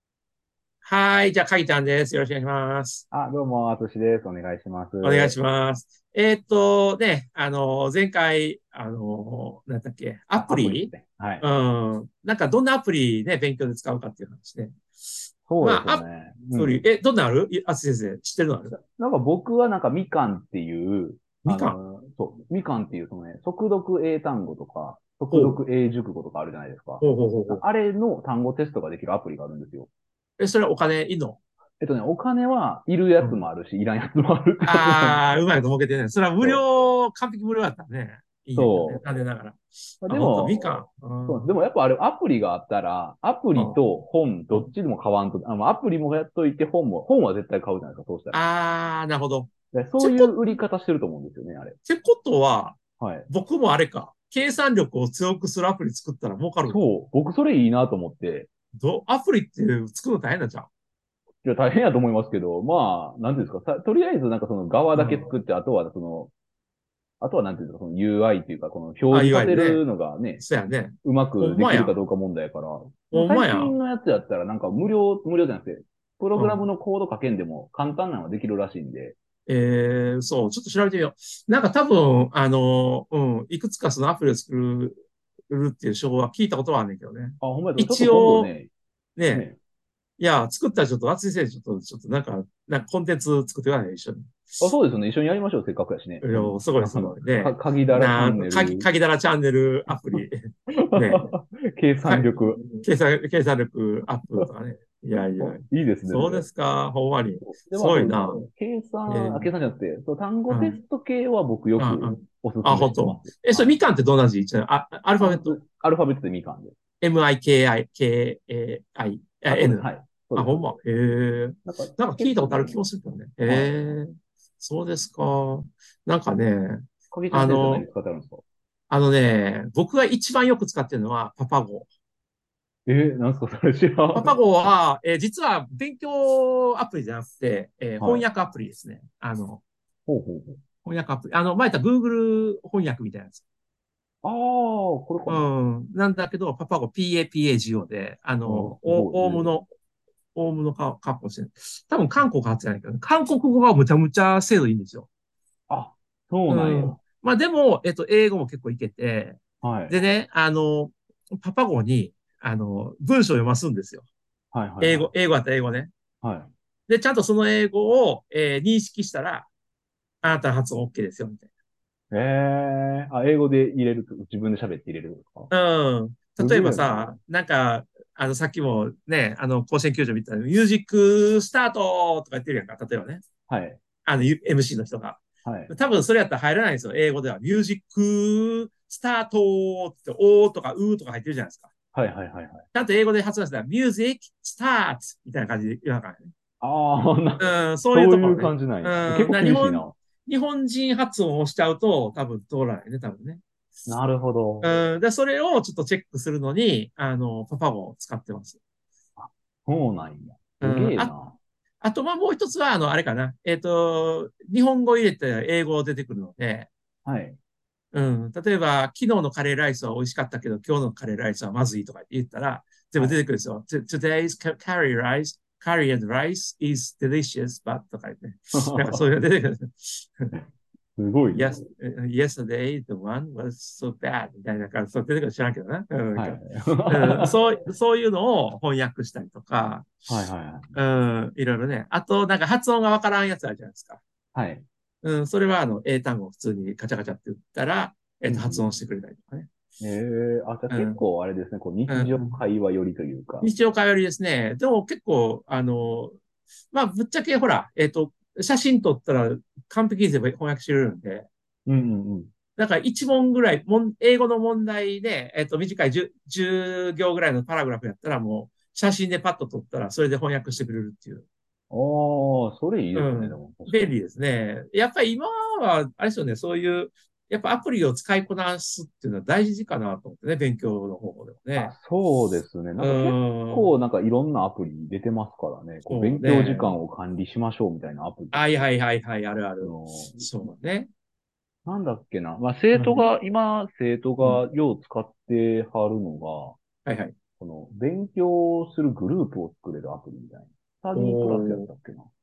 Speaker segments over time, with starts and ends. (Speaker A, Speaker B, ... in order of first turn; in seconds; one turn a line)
Speaker A: 0.8-3.0
Speaker B: 3.1-5.4
Speaker A: 5.0-14.8
Speaker B: 10.3-11.5
Speaker B: 15.5-16.8
Speaker A: 15.6-18.8
Speaker B: 18.7-29.9
Speaker A: 21.4-21.8
Speaker A: 25.3-25.6
Speaker A: 27.0-27.6
Speaker A: 30.4-31.4
Speaker B: 31.8-35.3
Speaker A: 34.6-41.5
Speaker B: 38.5-39.0
Speaker B: 40.0-48.4
Speaker A: 48.3-50.4
Speaker B: 49.7-51.8
Speaker A: 51.8-56.8
Speaker B: 53.0-53.3
Speaker B: 56.6-58.5
Speaker A: 58.8-60.7
Speaker B: 61.4-66.3
Speaker A: 64.9-65.3
Speaker B: 67.2-70.4
Speaker A: 69.1-69.8
Speaker A: 70.4-72.0
Speaker B: 71.0-79.2
Speaker A: 73.1-73.8
Speaker A: 76.3-76.7
Speaker A: 79.5-88.5
Speaker B: 87.4-88.7
Speaker A: 89.2-89.4
Speaker B: 89.3-89.6
Speaker A: 90.2-94.7
Speaker B: 94.6-98.9
Speaker A: 96.2-101.3
Speaker B: 100.7-102.8
Speaker A: 102.0-108.5
Speaker B: 105.4-106.5
Speaker B: 107.4-113.8
Speaker A: 109.1-109.5
Speaker A: 110.5-110.8
Speaker A: 111.8-115.6
Speaker B: 115.2-116.7
Speaker A: 117.0-127.9
Speaker B: 119.5-120.7
Speaker B: 121.6-122.8
Speaker B: 123.4-123.9
Speaker B: 127.1-128.4
Speaker A: 128.9-131.9
Speaker B: 132.8-134.4
Speaker A: 134.1-139.6
Speaker B: 138.0-138.3
Speaker B: 140.1-140.6
Speaker A: 140.8-143.4
Speaker B: 144.2-145.4
Speaker A: 145.3-149.7
Speaker B: 148.4-149.6
Speaker A: 150.3-155.1
Speaker B: 155.7-157.0
Speaker A: 156.5-164.1
Speaker B: 159.6-160.0
Speaker B: 164.5-165.1
Speaker A: 164.8-165.9
Speaker B: 166.2-166.5
Speaker A: 166.9-169.5
Speaker A: 170.2-171.5
Speaker B: 172.1-175.5
Speaker A: 175.5-183.2
Speaker B: 176.4-177.2
Speaker B: 183.5-183.8
Speaker A: 184.0-191.7
Speaker B: 185.4-185.7
Speaker B: 191.9-192.7
Speaker A: 192.7-196.3
Speaker B: 196.6-200.0
Speaker A: 197.4-203.4
Speaker B: 203.9-204.7
Speaker A: 204.6-208.6
Speaker B: 209.2-211.3
Speaker A: 210.6-211.1
Speaker A: 211.8-216.7
Speaker B: 217.0-217.4
Speaker A: 217.9-230.3
Speaker B: 228.5-229.0
Speaker B: 231.0-231.7
Speaker A: 231.3-240.1
Speaker B: 236.1-237.3
Speaker B: 240.1-240.7
Speaker A: 240.7-244.0
Speaker B: 244.3-244.6
Speaker A: 245.0-249.5
Speaker B: 248.2-248.7
Speaker B: 249.8-253.5
Speaker A: 250.7-251.0
Speaker A: 251.9-252.3
Speaker A: 253.4-256.2
Speaker A: 256.7-261.3
Speaker B: 261.7-262.3
Speaker A: 262.6-271.2
Speaker B: 271.7-273.9
Speaker A: 272.9-281.7
Speaker B: 281.6-288.6
Speaker A: 282.8-283.7
Speaker A: 285.9-286.8
Speaker A: 288.3-290.9
Speaker B: 289.6-290.3
Speaker B: 291.6-296.6
Speaker A: 292.7-293.1
Speaker A: 296.9-297.1
Speaker B: 297.4-302.1
Speaker A: 300.9-301.7